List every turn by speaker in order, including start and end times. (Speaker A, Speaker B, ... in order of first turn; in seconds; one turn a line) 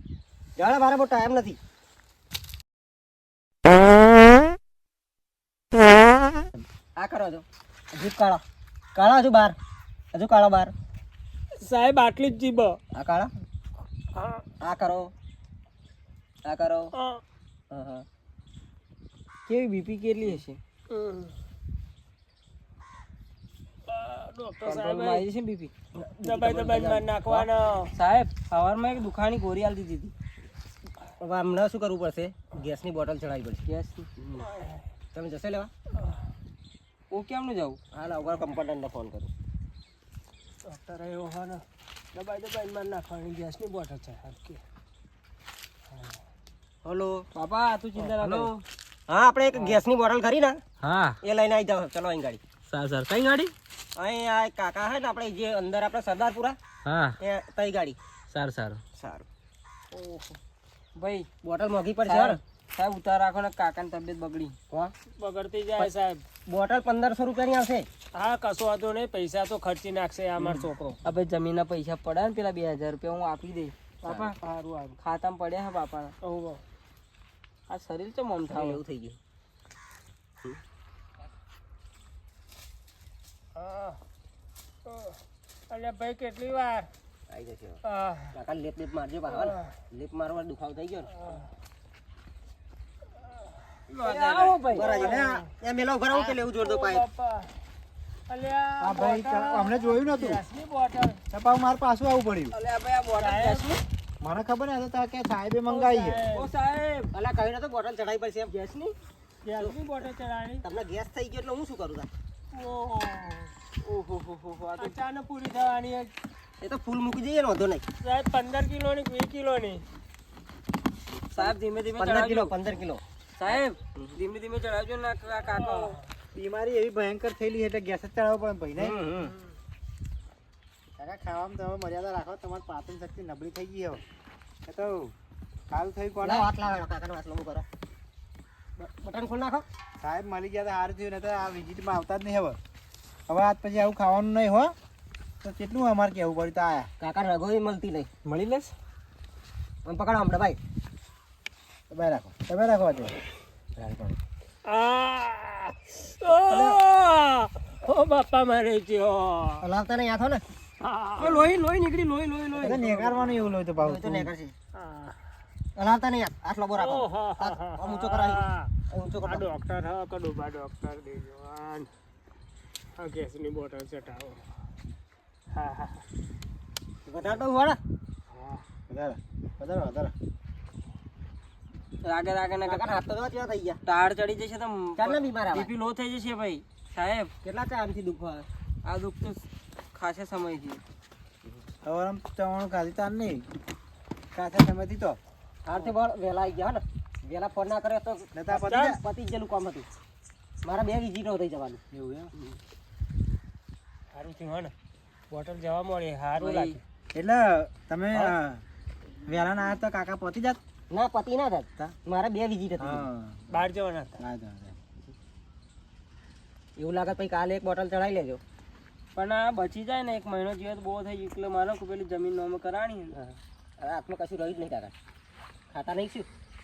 Speaker A: 0.6-1.6
Speaker A: 7.0-8.4
Speaker A: 8.9-9.6
Speaker A: 10.1-10.7
Speaker B: 11.6-12.8
Speaker A: 12.9-13.3
Speaker B: 14.2-14.4
Speaker A: 14.6-15.1
Speaker A: 16.4-16.9
Speaker B: 16.9-17.2
Speaker A: 17.7-18.0
Speaker C: 19.5-20.6
Speaker B: 20.9-21.3
Speaker B: 23.9-25.2
Speaker C: 24.6-25.7
Speaker A: 25.9-27.3
Speaker B: 26.2-27.9
Speaker C: 27.9-30.1
Speaker A: 31.2-33.6
Speaker C: 33.6-34.1
Speaker B: 34.5-34.8
Speaker A: 35.1-35.7
Speaker C: 37.1-37.8
Speaker A: 37.9-39.3
Speaker B: 40.6-41.6
Speaker B: 42.1-44.6
Speaker B: 45.9-46.2
Speaker A: 46.8-47.2
Speaker C: 47.3-48.6
Speaker B: 48.0-48.4
Speaker A: 49.1-50.6
Speaker C: 50.8-51.2
Speaker A: 51.2-52.4
Speaker C: 52.7-53.5
Speaker A: 54.0-56.6
Speaker C: 56.8-57.2
Speaker A: 57.2-58.0
Speaker C: 58.3-58.8
Speaker A: 59.0-59.2
Speaker C: 61.0-61.3
Speaker A: 61.4-62.4
Speaker C: 62.0-64.5
Speaker B: 65.2-66.2
Speaker A: 66.5-67.9
Speaker B: 68.1-71.0
Speaker C: 70.4-74.4
Speaker A: 74.0-74.3
Speaker B: 74.4-75.0
Speaker C: 75.0-76.1
Speaker B: 76.2-76.6
Speaker C: 77.7-78.8
Speaker A: 78.5-79.2
Speaker B: 83.5-84.0
Speaker B: 84.9-85.2
Speaker B: 85.7-86.9
Speaker A: 87.3-87.8
Speaker B: 87.8-88.3
Speaker A: 88.3-91.1
Speaker B: 89.3-89.6
Speaker B: 91.1-91.5
Speaker C: 93.9-95.2
Speaker A: 94.0-97.0
Speaker B: 94.2-95.5
Speaker D: 94.9-95.4
Speaker B: 96.1-97.5
Speaker B: 98.3-101.2
Speaker D: 98.8-100.4
Speaker D: 101.3-102.6
Speaker C: 102.5-103.8
Speaker B: 103.2-103.7
Speaker D: 104.2-106.2
Speaker B: 105.7-106.5
Speaker C: 106.3-107.1
Speaker A: 107.1-108.5
Speaker C: 108.5-108.9
Speaker B: 109.4-110.6
Speaker A: 109.6-110.0
Speaker A: 110.6-112.1
Speaker B: 112.5-113.5
Speaker C: 113.8-115.0
Speaker B: 114.8-116.1
Speaker A: 116.6-117.8
Speaker B: 118.0-119.8
Speaker C: 121.3-122.5
Speaker A: 121.4-124.2
Speaker C: 123.4-126.0
Speaker B: 125.6-126.0
Speaker D: 126.3-128.9
Speaker A: 128.8-129.3
Speaker D: 131.0-134.0
Speaker D: 134.7-135.1
Speaker D: 135.7-136.5
Speaker A: 136.2-137.7
Speaker A: 138.8-139.7
Speaker D: 140.0-142.6
Speaker D: 143.3-144.7
Speaker D: 145.4-146.9
Speaker A: 147.0-148.1
Speaker B: 148.2-148.7
Speaker A: 149.8-150.6
Speaker D: 151.9-153.1
Speaker A: 153.8-154.2
Speaker B: 154.6-159.7
Speaker A: 156.5-156.8
Speaker A: 159.6-160.4
Speaker B: 160.8-161.5
Speaker A: 161.2-161.5
Speaker C: 161.2-162.8
Speaker A: 162.5-164.5
Speaker D: 162.6-164.3
Speaker B: 164.8-165.2
Speaker A: 165.8-169.4
Speaker B: 166.8-168.7
Speaker B: 169.3-171.9
Speaker B: 173.0-174.4
Speaker B: 175.5-176.0
Speaker A: 177.1-177.8
Speaker B: 178.3-178.6
Speaker D: 178.9-180.1
Speaker C: 182.0-182.9
Speaker A: 182.6-183.8
Speaker C: 183.8-187.3
Speaker A: 185.0-185.7
Speaker A: 187.4-188.5
Speaker C: 188.8-190.8
Speaker D: 191.8-193.4
Speaker D: 194.3-195.2
Speaker A: 195.6-198.3
Speaker D: 198.3-199.0
Speaker B: 198.5-198.9
Speaker A: 198.8-199.9
Speaker A: 200.6-201.8
Speaker D: 201.9-202.3
Speaker B: 204.1-204.7
Speaker B: 205.3-206.8
Speaker C: 206.4-206.8
Speaker D: 207.1-208.6
Speaker D: 209.2-210.6
Speaker A: 210.9-213.1
Speaker D: 212.8-213.6
Speaker B: 213.5-214.2
Speaker D: 214.2-214.8
Speaker A: 216.8-218.4
Speaker C: 219.2-223.2
Speaker A: 223.1-224.9
Speaker A: 225.7-226.3